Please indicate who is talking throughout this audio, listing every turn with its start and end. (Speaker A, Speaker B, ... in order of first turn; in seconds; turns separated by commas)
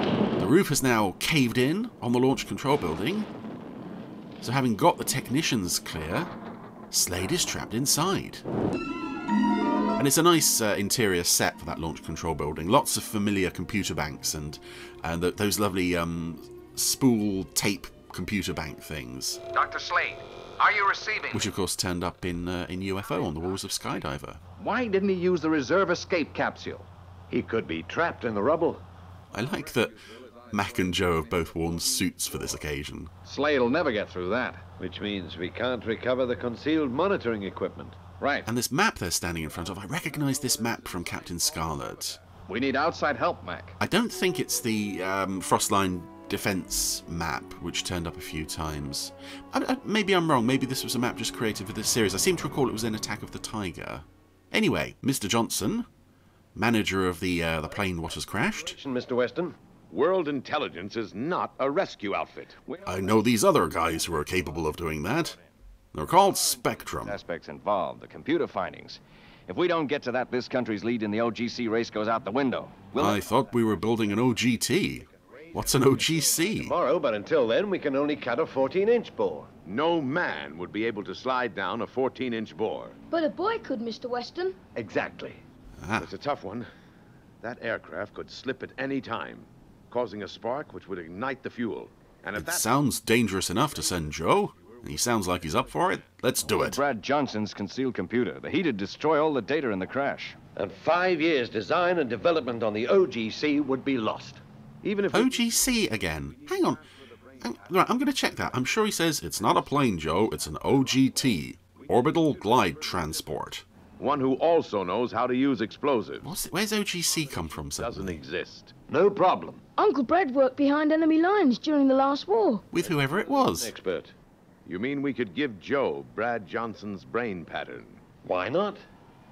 Speaker A: 0.4-3.3, Speaker A: 4.4-6.3, Speaker A: 6.9-8.4, Speaker A: 10.0-19.4, Speaker B: 19.5-21.3, Speaker A: 21.3-24.4, Speaker C: 24.6-26.9, Speaker D: 27.3-28.8, Speaker A: 29.3-30.0, Speaker A: 30.5-33.1, Speaker C: 33.2-34.7, Speaker D: 34.8-38.0, Speaker C: 38.2-38.5, Speaker A: 38.5-42.2, Speaker C: 42.5-43.8, Speaker A: 43.8-55.9, Speaker A: 56.5-58.8, Speaker D: 58.7-59.6, Speaker E: 59.9-62.6, Speaker A: 62.9-65.4, Speaker A: 65.9-67.2, Speaker B: 67.0-73.2, Speaker A: 73.0-76.8, Speaker D: 76.6-79.5, Speaker E: 79.7-83.0, Speaker F: 83.1-84.6, Speaker D: 84.8-85.4, Speaker A: 85.8-86.1, Speaker E: 86.0-86.7, Speaker E: 87.4-92.7, Speaker A: 92.3-96.8, Speaker B: 96.6-100.4, Speaker D: 100.6-105.3, Speaker A: 105.1-106.8, Speaker A: 107.4-113.7, Speaker E: 114.0-116.3, Speaker A: 116.2-118.2, Speaker E: 117.8-118.8, Speaker D: 118.8-119.6, Speaker F: 119.8-122.7, Speaker A: 122.7-123.7, Speaker D: 122.8-124.1, Speaker E: 124.7-128.0, Speaker D: 128.2-128.8